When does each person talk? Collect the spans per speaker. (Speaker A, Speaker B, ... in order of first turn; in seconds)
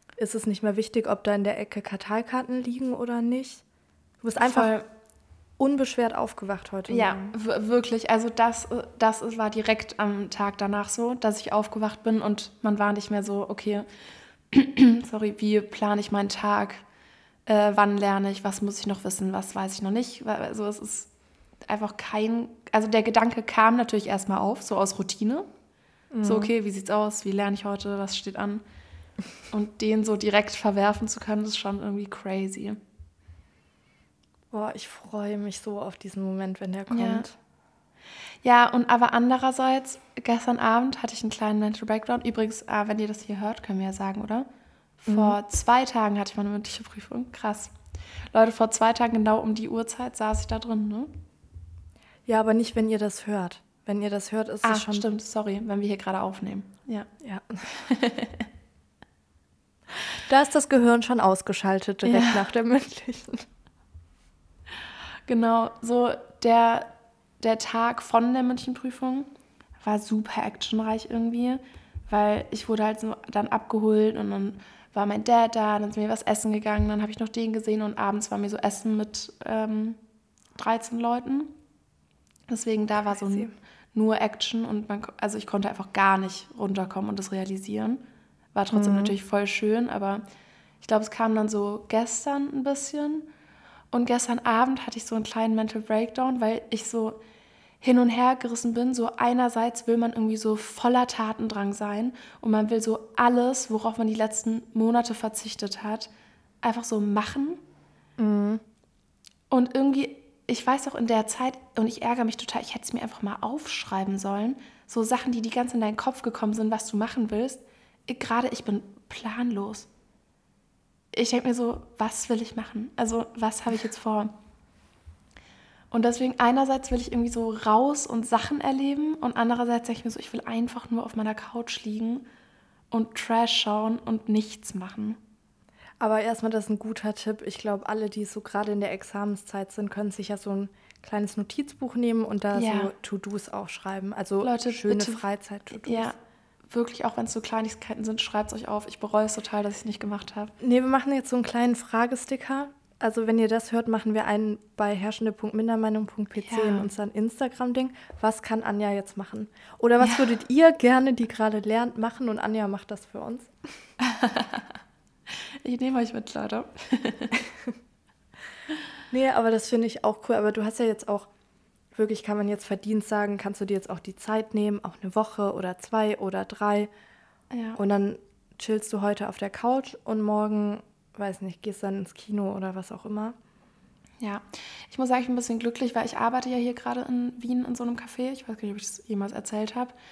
Speaker A: 0.2-3.6, 4.2-4.7, 5.6-7.3, 26.1-26.5, 34.5-37.4, 45.1-45.4, 52.3-55.1, 57.2-57.6, 60.2-63.5, 83.1-83.5, 88.7-89.1, 108.2-108.6, 136.0-146.1, 150.6-163.8, 169.1-171.3, 171.9-176.9, 177.8-183.4
Speaker B: 4.4-4.9, 6.9-13.9, 14.5-16.9, 17.5-21.1, 21.7-25.5, 26.2-28.6, 29.5-32.8, 36.9-37.3, 38.4-44.5, 45.0-47.7, 48.3-51.1, 54.6-57.1, 57.6-58.5, 62.0-62.5, 65.3-69.3, 69.8-80.0, 80.6-81.6, 82.5-88.0, 88.5-90.2, 90.8-93.3, 93.9-97.2, 97.8-106.1, 106.6-107.6, 109.5-119.9, 121.1-124.4, 125.9-132.3, 132.9-135.2, 142.5-142.9, 144.4-145.2, 145.7-146.2, 146.7-150.6, 156.4-156.9, 160.0-160.3, 164.0-164.7, 165.3-167.4, 177.5-177.8, 184.2-189.9